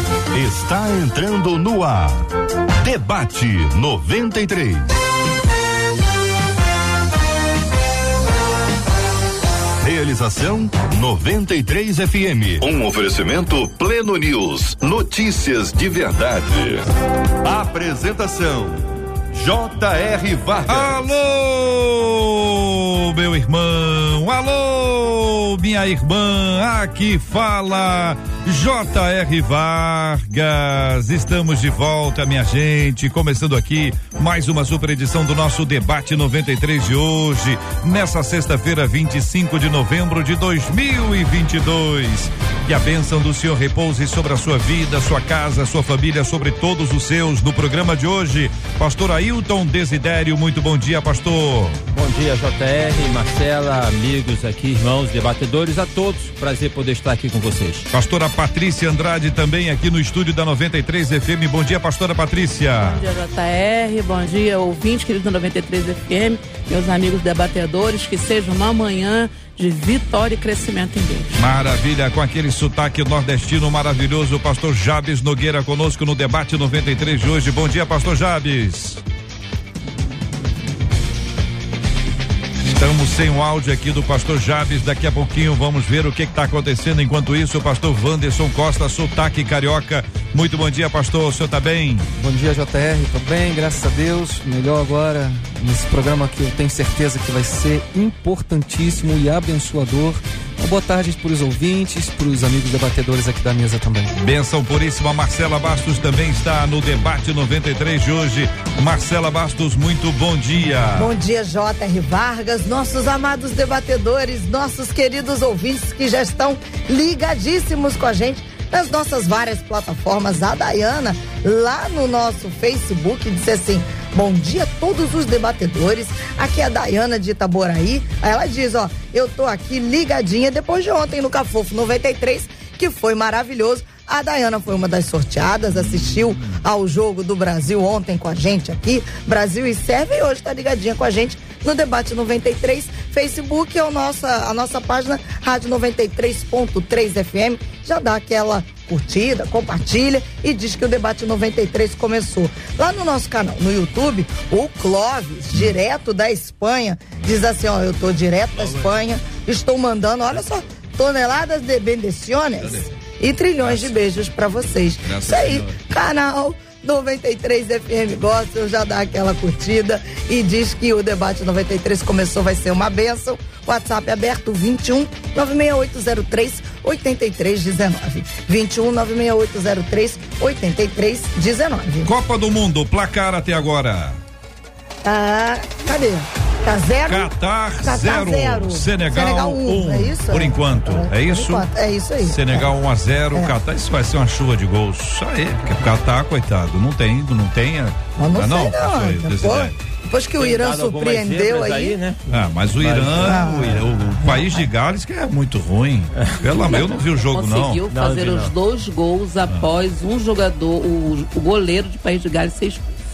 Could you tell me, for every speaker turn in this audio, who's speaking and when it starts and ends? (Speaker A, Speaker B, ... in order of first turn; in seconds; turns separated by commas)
Speaker A: 0.3-2.2, Speaker A: 2.8-4.9, Speaker A: 9.8-16.9, Speaker A: 17.4-21.1, Speaker B: 20.7-51.8, Speaker C: 51.9-57.9, Speaker B: 57.9-63.0, Speaker D: 62.8-71.4, Speaker B: 71.3-79.0, Speaker B: 82.7-92.1, Speaker E: 92.2-104.1, Speaker B: 104.2-111.1, Speaker F: 110.9-182.1, Speaker B: 135.7-136.6, Speaker B: 158.6-158.9, Speaker B: 162.6-162.8, Speaker B: 163.6-164.0, Speaker B: 165.0-165.8, Speaker B: 182.0-184.2, Speaker F: 185.0-192.7, Speaker B: 187.0-199.8, Speaker F: 198.2-202.0, Speaker C: 200.3-203.5, Speaker B: 202.3-207.8, Speaker F: 203.2-203.8, Speaker D: 206.5-212.8, Speaker C: 207.9-208.5